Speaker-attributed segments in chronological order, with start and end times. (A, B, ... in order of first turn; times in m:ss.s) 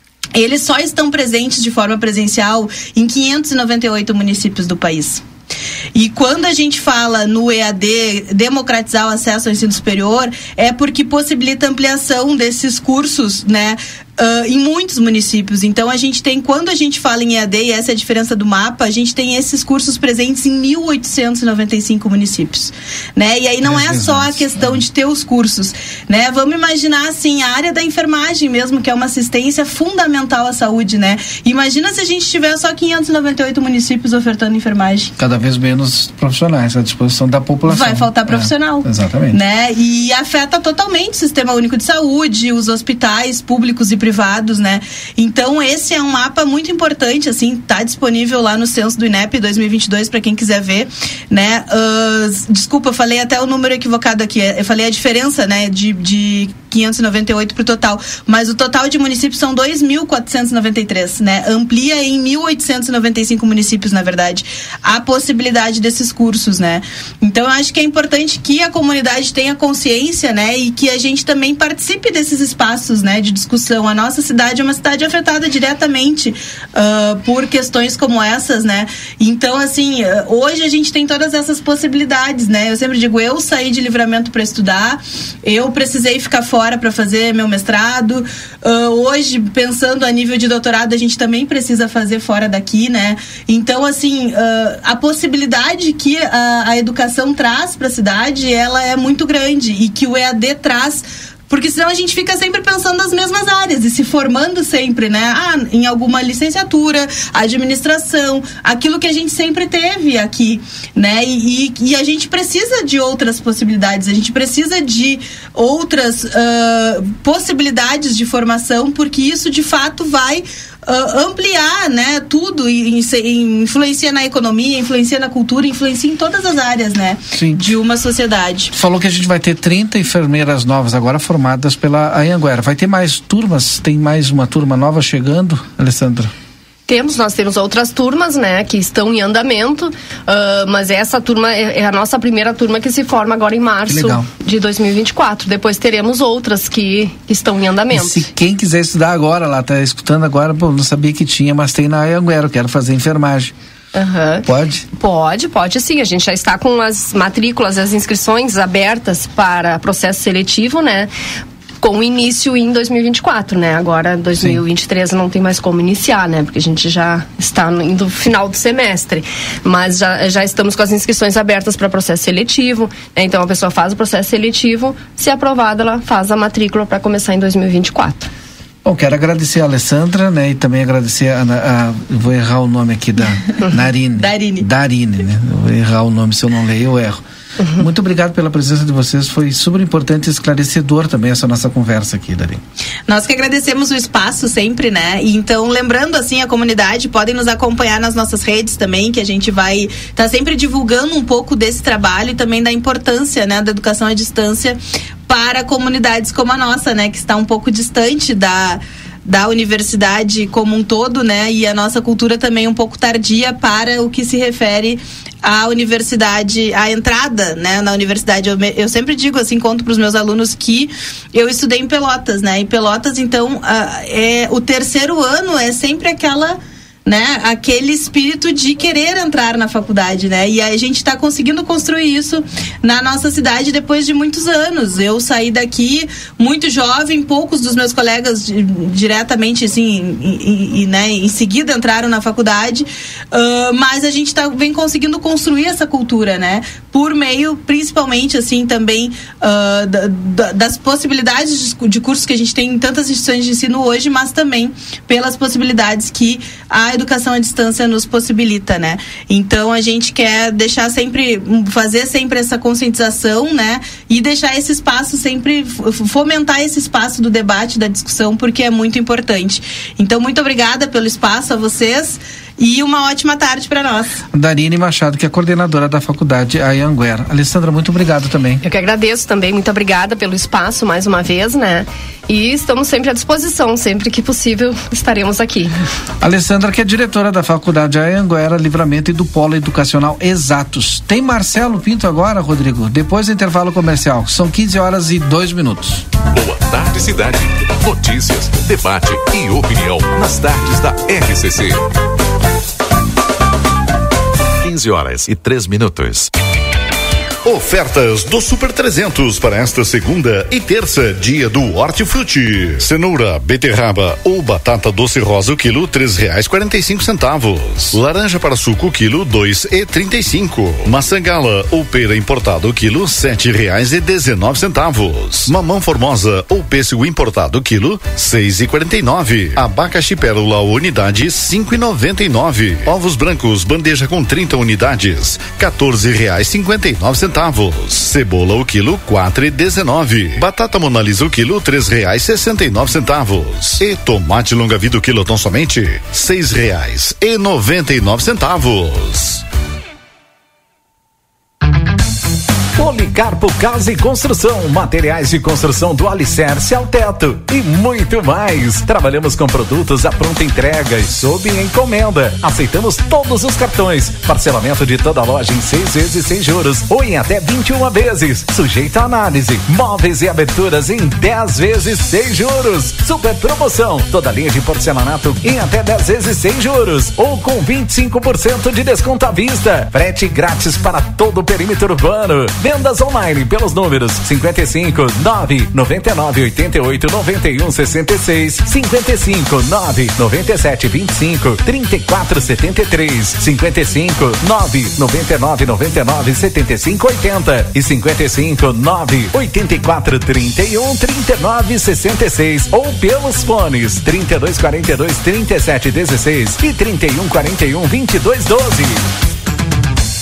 0:00.4-0:05.2 A
0:06.0-0:35.1 A
0:23.6-0:24.8 B
0:35.2-0:39.4 B
0:37.7-2:08.7 A
2:07.3-2:07.7 B
2:08.7-2:16.3 B
2:16.9-2:28.3 C
2:23.9-2:24.3 B
2:27.9-2:33.5 B
2:33.9-2:41.1 C
2:34.4-2:34.8 B
2:41.8-2:58.3 C
2:58.8-3:07.2 B
3:04.2-3:04.7 A
3:07.8-3:12.6 B
3:13.1-4:34.2 A
4:34.3-4:38.6 B
4:38.6-4:45.8 C
4:46.2-4:56.0 B
4:56.3-5:01.8 D
5:07.4-5:49.4 E
5:52.8-6:49.0 F